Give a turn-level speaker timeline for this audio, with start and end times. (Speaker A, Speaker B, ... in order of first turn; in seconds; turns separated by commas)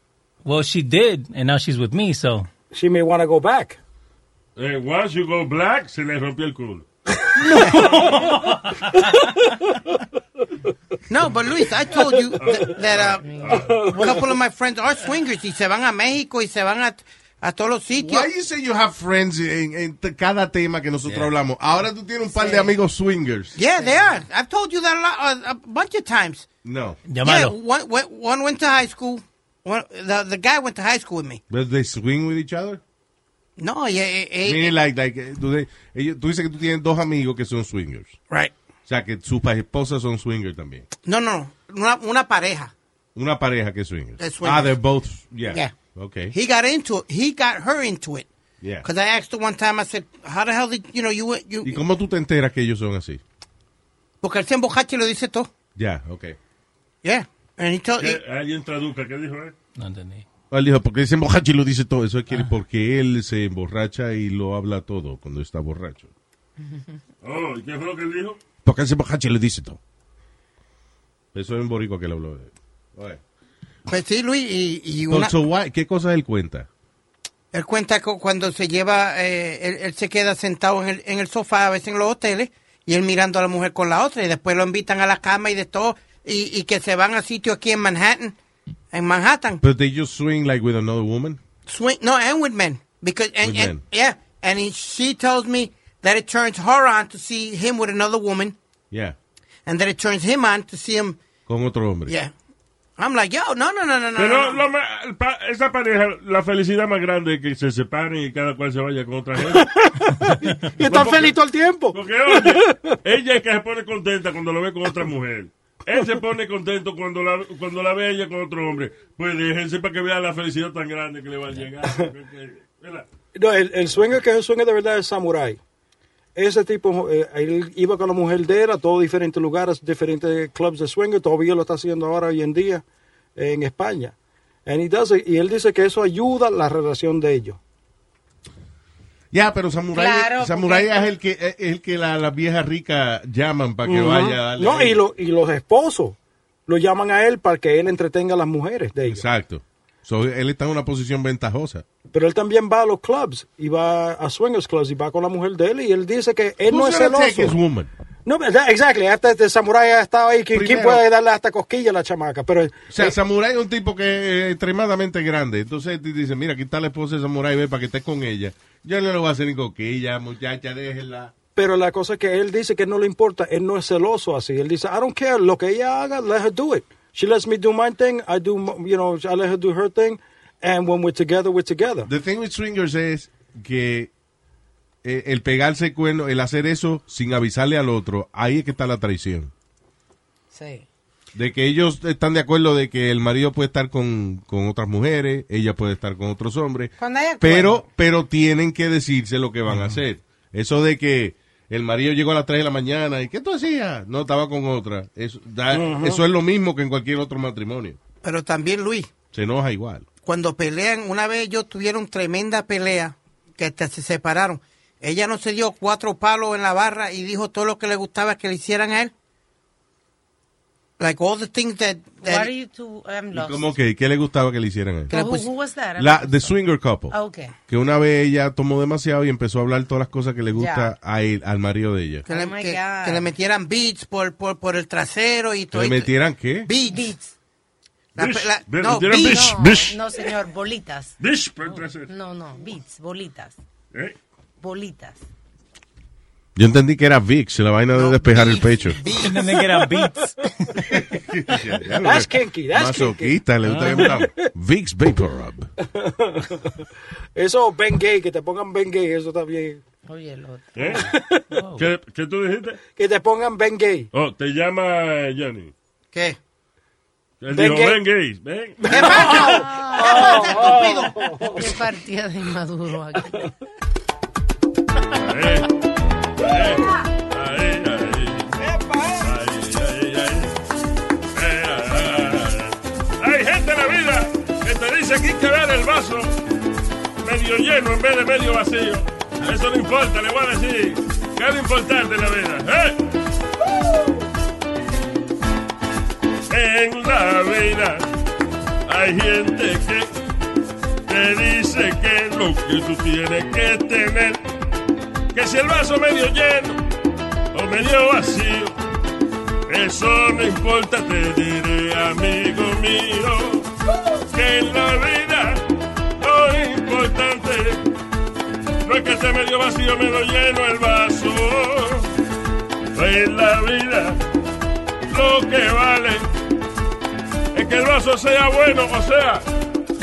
Speaker A: 0.4-2.5, Speaker B: 2.7-3.8, Speaker C: 4.5-6.8, Speaker B: 7.3-8.3, Speaker A: 7.5-9.2, Speaker D: 11.1-18.3, Speaker C: 12.4-14.0, Speaker E: 13.2-13.6, Speaker B: 13.5-14.1, Speaker F: 18.0-23.6, Speaker D: 23.6-26.5, Speaker F: 26.6-27.0, Speaker A: 27.1-27.5, Speaker D: 27.2-31.4, Speaker F: 31.5-32.8, Speaker D: 33.6-34.7, Speaker F: 34.4-38.2, Speaker F: 38.9-40.9, Speaker D: 41.0-42.7, Speaker F: 43.1-46.3, Speaker D: 44.2-44.8, Speaker D: 45.5-45.7, Speaker D: 46.3-48.3, Speaker F: 48.6-48.9, Speaker D: 48.8-51.8, Speaker F: 51.6-53.2, Speaker D: 54.2-55.5, Speaker F: 55.8-56.4, Speaker D: 57.0-58.2, Speaker C: 58.0-59.5, Speaker A: 59.8-60.2, Speaker F: 60.5-66.1, Speaker C: 67.2-68.4, Speaker F: 68.6-69.8, Speaker F: 71.3-73.2, Speaker D: 73.9-75.3, Speaker F: 75.1-76.7, Speaker D: 77.5-88.4, Speaker D: 88.9-89.6, Speaker F: 89.6-91.4, Speaker D: 91.7-98.6, Speaker F: 93.4-93.8, Speaker F: 98.9-99.2, Speaker D: 99.7-101.2, Speaker F: 101.5-102.1, Speaker D: 102.1-102.3, Speaker D: 103.0-104.6, Speaker C: 104.2-109.9, Speaker B: 109.5-112.9, Speaker C: 110.8-111.4, Speaker C: 111.9-123.1, Speaker B: 123.3-125.6, Speaker B: 126.3-132.8, Speaker B: 133.3-134.1, Speaker B: 134.7-137.6, Speaker F: 139.3-145.0, Speaker E: 139.9-141.1, Speaker B: 143.8-149.2, Speaker F: 149.1-151.8, Speaker B: 152.1-157.5, Speaker F: 156.7-157.9, Speaker B: 158.2-163.1, Speaker F: 160.5-161.0, Speaker F: 162.9-171.3, Speaker B: 171.6-182.1, Speaker F: 182.1-184.1, Speaker F: 185.0-189.5, Speaker E: 190.5-190.8, Speaker F: 191.3-208.0, Speaker E: 197.0-197.9, Speaker B: 205.7-206.2, Speaker D: 208.2-209.1, Speaker F: 209.3-210.1, Speaker D: 210.2-219.1, Speaker D: 221.0-222.5, Speaker E: 222.2-223.7, Speaker F: 223.3-225.1, Speaker D: 225.1-225.5, Speaker E: 225.1-227.6, Speaker F: 226.0-227.1, Speaker F: 227.7-232.2, Speaker E: 230.5-230.9, Speaker E: 232.2-233.3, Speaker D: 232.3-236.1, Speaker F: 235.7-236.7, Speaker D: 236.6-237.1, Speaker E: 236.8-237.3, Speaker D: 238.2-239.6, Speaker C: 238.2-240.2, Speaker E: 239.1-241.1, Speaker C: 241.2-242.1, Speaker E: 242.1-243.6, Speaker E: 244.6-245.2, Speaker F: 246.6-249.0, Speaker D: 247.9-249.6, Speaker A: 249.1-250.9, Speaker B: 249.9-250.2, Speaker F: 250.9-255.7, Speaker B: 251.9-254.4, Speaker A: 253.7-254.1, Speaker B: 255.8-259.8, Speaker E: 260.1-261.0, Speaker C: 260.8-261.1, Speaker B: 261.1-261.6, Speaker A: 261.6-261.8, Speaker C: 261.7-262.8, Speaker B: 262.9-264.1, Speaker C: 264.1-265.7, Speaker D: 266.1-266.4, Speaker C: 267.4-269.4, Speaker B: 267.5-268.0, Speaker B: 268.8-271.8, Speaker D: 268.9-271.2, Speaker E: 269.4-270.9, Speaker E: 271.5-273.5, Speaker C: 275.2-275.7, Speaker C: 276.4-278.5, Speaker C: 279.1-280.5, Speaker C: 281.3-286.4, Speaker C: 287.2-293.0, Speaker C: 296.5-298.1, Speaker C: 298.9-300.1, Speaker C: 301.1-304.4, Speaker C: 305.3-306.8, Speaker C: 307.5-308.8, Speaker C: 309.7-313.7, Speaker C: 314.3-315.6, Speaker C: 316.2-317.8, Speaker C: 318.8-322.1, Speaker C: 322.9-324.2, Speaker C: 325.1-326.3, Speaker C: 327.5-329.4